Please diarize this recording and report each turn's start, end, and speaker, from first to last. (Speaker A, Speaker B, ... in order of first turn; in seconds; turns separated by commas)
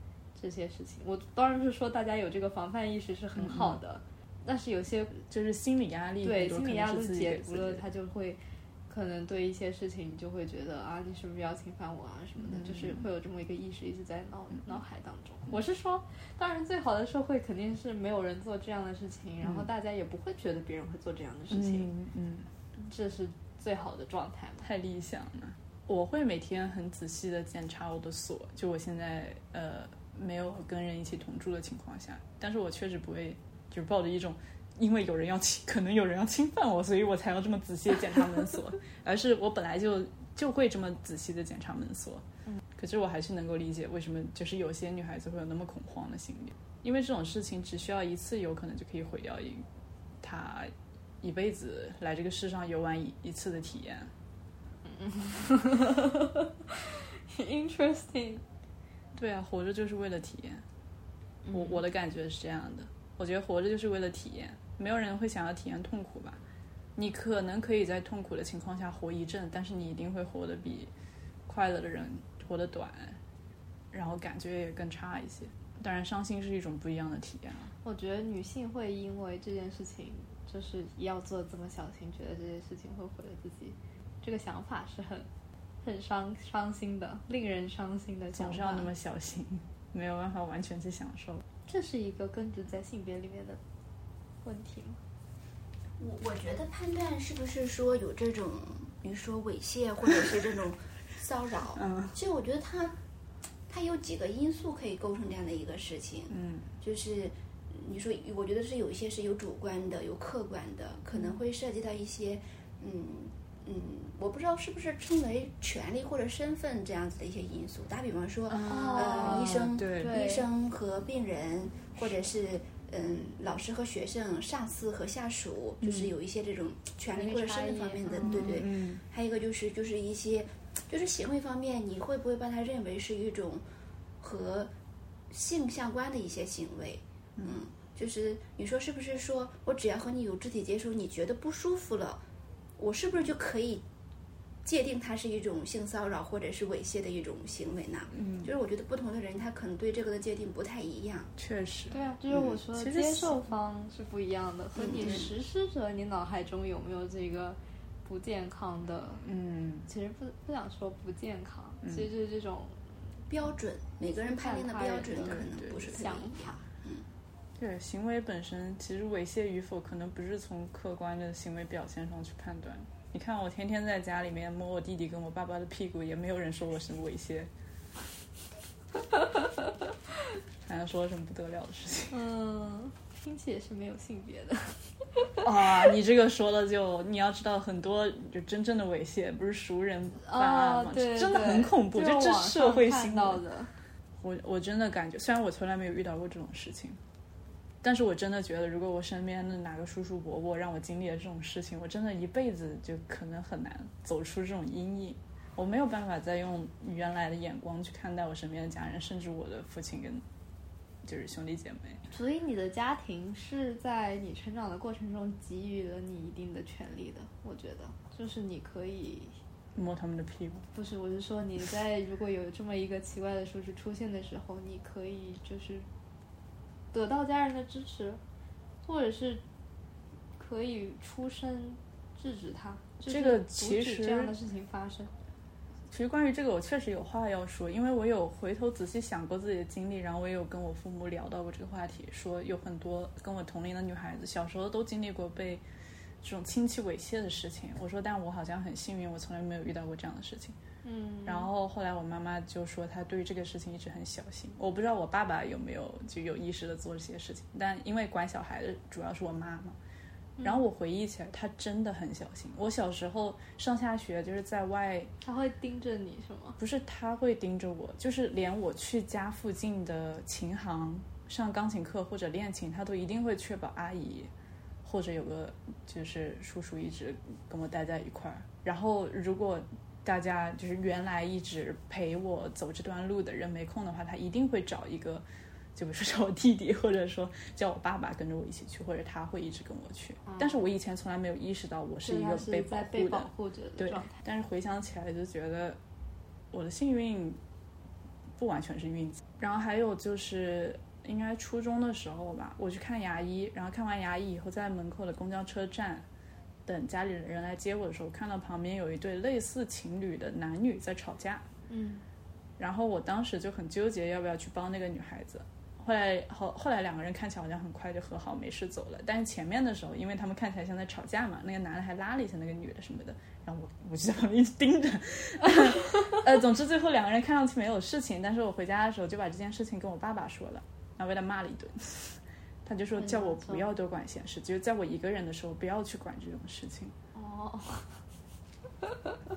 Speaker A: 0.3-5.2, Speaker B: 3.4-3.8, Speaker B: 5.3-7.8, Speaker A: 6.2-21.9, Speaker B: 12.4-13.0, Speaker B: 21.5-22.5, Speaker A: 22.8-24.7, Speaker B: 24.6-42.2, Speaker B: 42.8-49.6, Speaker B: 50.2-54.1, Speaker A: 54.9-58.4, Speaker B: 59.1-60.6, Speaker A: 61.5-61.8, Speaker B: 61.5-66.4, Speaker B: 67.0-70.9, Speaker B: 71.5-73.2, Speaker B: 73.9-77.7, Speaker A: 77.8-85.3, Speaker A: 85.8-88.9, Speaker B: 88.3-91.4, Speaker A: 91.7-93.6, Speaker A: 94.4-95.0, Speaker C: 96.0-103.0, Speaker B: 101.8-102.2, Speaker C: 103.7-133.6, Speaker B: 106.3-106.7, Speaker B: 118.5-120.2, Speaker A: 118.6-120.5, Speaker B: 125.8-126.2, Speaker A: 127.1-128.6, Speaker B: 128.1-129.0, Speaker C: 134.2-134.7, Speaker C: 135.3-142.2, Speaker C: 142.8-143.8, Speaker C: 144.7-151.3, Speaker B: 148.2-148.5, Speaker B: 151.4-153.4, Speaker A: 151.9-159.2, Speaker C: 154.8-155.3, Speaker B: 159.2-159.9, Speaker A: 159.9-162.8, Speaker C: 163.3-167.1, Speaker A: 164.1-166.6, Speaker B: 165.2-166.0, Speaker B: 167.6-177.5, Speaker B: 180.7-182.2, Speaker A: 182.1-185.4, Speaker B: 185.4-193.4, Speaker A: 190.2-193.7, Speaker B: 194.2-197.0, Speaker B: 197.8-210.2, Speaker B: 211.0-212.0, Speaker A: 212.1-219.4, Speaker B: 219.8-220.7, Speaker A: 220.7-225.9, Speaker A: 226.9-228.2, Speaker A: 228.8-229.4, Speaker A: 230.4-235.1, Speaker B: 233.1-234.3, Speaker B: 235.9-245.6, Speaker B: 246.2-250.6, Speaker A: 250.8-251.5, Speaker B: 251.2-259.8, Speaker B: 260.4-265.1, Speaker A: 265.2-266.6, Speaker B: 266.6-274.3, Speaker B: 274.8-285.2, Speaker B: 285.8-295.8, Speaker A: 290.2-290.6, Speaker A: 292.0-294.2, Speaker B: 296.5-297.4, Speaker B: 298.4-306.1, Speaker B: 306.7-311.4, Speaker A: 311.7-312.0, Speaker B: 312.6-336.9, Speaker A: 333.0-333.7, Speaker A: 337.1-338.0, Speaker A: 338.8-339.1